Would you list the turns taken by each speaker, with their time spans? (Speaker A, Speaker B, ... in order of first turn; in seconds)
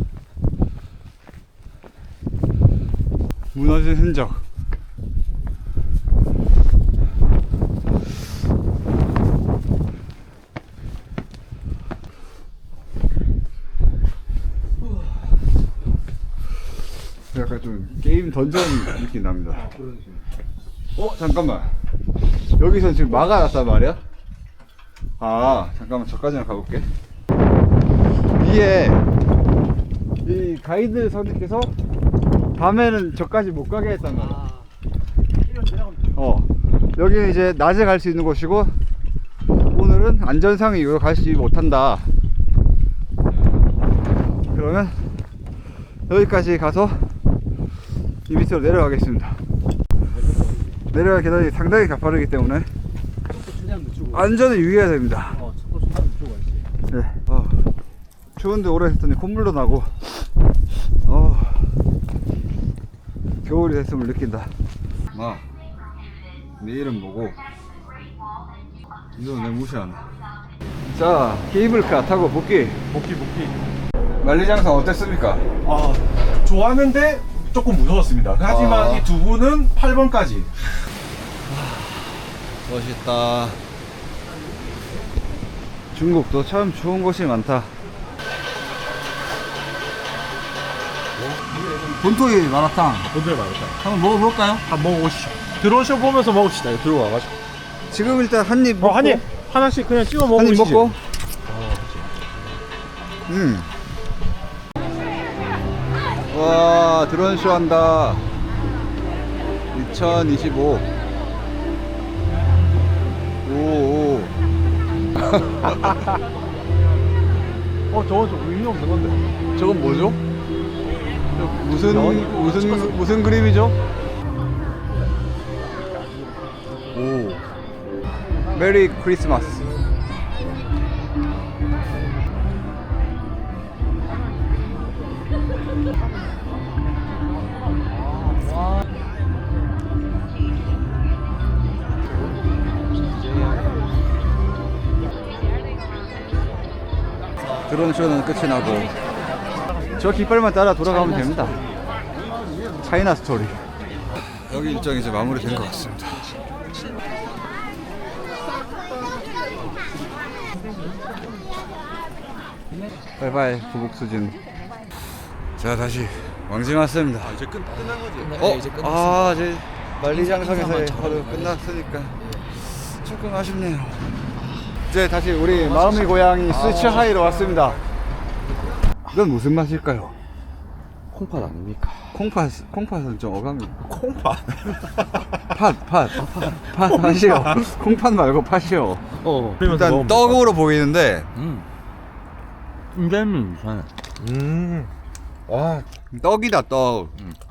Speaker A: 3.5-4.4, 17.3-19.7, 20.9-21.7, 22.6-24.0, 25.2-26.9, 28.4-29.0, 30.2-31.7, 32.5-34.4, 36.1-38.8, 39.7-42.1, 44.5-45.0, 46.1-47.1, 48.3-49.4, 50.9-52.7, 54.1-55.4, 56.9-57.6, 58.4-60.1, 61.0-61.8, 63.4-64.5, 65.1-65.4, 66.6-67.4, 69.2-70.1, 70.8-72.8, 74.2-75.5, 78.5-79.1, 81.5-82.0, 82.6-83.6, 85.9-87.7, 92.0-93.1, 93.8-94.6, 97.9-99.2, 100.3-101.0, 103.3-103.7, 106.3-108.3, 109.7-110.9, 113.4-114.3, 119.5-120.2, 121.3-123.8, 126.9-127.4, 128.4-129.8, 147.7-148.9, 150.0-151.6, 152.8-153.6, 154.4-156.3, 163.2-164.4, 165.6-167.5, 168.3-174.2, 174.9-177.8, 179.1-180.1, 182.1-183.7, 185.5-189.0, 189.6-191.3, 196.1-197.1
Speaker B: 19.6-20.1, 34.2-34.5, 50.1-50.7, 53.3-54.2, 55.4-56.6, 101.5-102.0, 138.3-138.7, 143.0-143.8, 150.9-151.7, 154.5-155.9, 167.7-169.4, 170.1-171.6, 175.5-177.0, 181.1-182.1, 189.2-189.6, 191.3-191.7, 192.9-193.9, 195.6-195.8
Speaker C: 72.9-73.6, 75.6-80.7, 93.1-93.8, 94.7-97.3, 98.8-101.0, 117.9-119.2, 121.9-123.0, 167.2-168.6, 176.5-177.8, 183.9-185.0, 187.2-187.5, 189.5-190.4, 194.2-194.9, 195.5-195.8